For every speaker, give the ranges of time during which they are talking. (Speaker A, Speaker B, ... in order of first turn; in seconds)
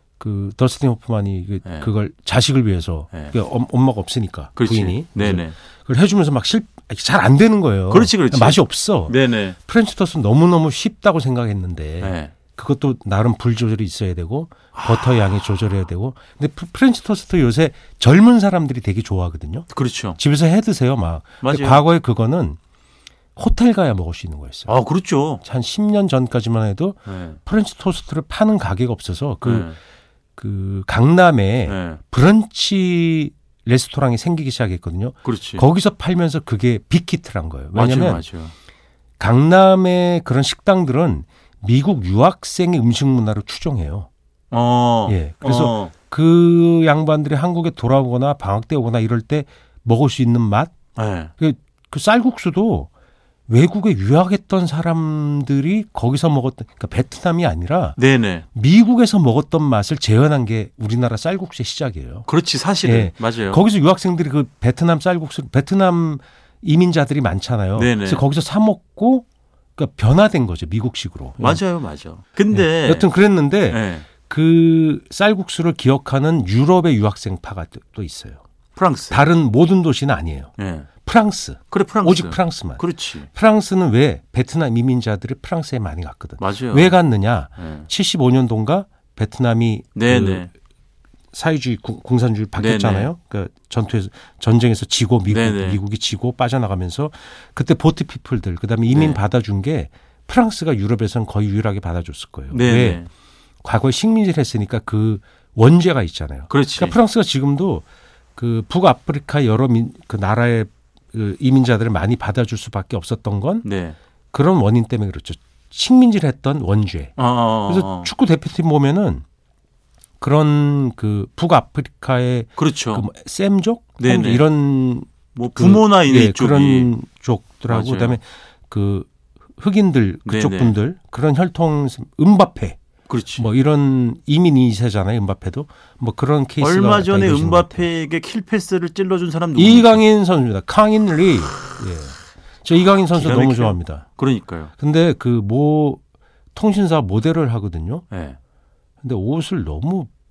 Speaker A: 0.2-22.6, 23.4-24.7, 25.4-29.8, 30.4-38.2, 39.2-44.1, 45.1-50.7, 51.4-52.9, 53.5-58.0, 58.5-62.3, 62.8-69.3, 69.8-71.6, 72.5-78.4, 79.1-80.5, 81.0-90.5, 91.3-103.0, 103.6-107.8, 108.4-113.7, 114.3-119.2, 120.2-132.8, 133.4-137.9, 139.6-144.1, 144.8-146.0, 146.6-148.1, 149.0-150.1
Speaker B: 1.6-1.9, 4.6-5.6, 7.9-9.6, 12.0-12.3, 14.7-15.6, 19.7-20.2, 21.4-21.8, 24.7-25.4, 27.1-27.4, 29.4-29.8, 31.7-32.0, 35.2-35.7, 37.7-38.5, 44.5-45.9, 51.0-51.3, 58.0-58.5, 62.3-63.6, 67.8-68.2, 71.4-73.1, 73.7-74.1, 78.8-79.2, 80.6-80.9, 81.7-83.3, 86.4-87.0, 87.6-87.9, 90.0-90.5, 92.5-93.1, 95.3-95.8, 98.9-99.2, 102.5-103.1, 106.5-107.0, 113.6-114.0, 117.2-118.1, 122.6-123.1, 124.0-124.5, 125.3-126.9, 127.7-128.2, 130.3-130.8, 133.1-133.5, 136.6-140.0, 143.1-144.7, 148.1-148.4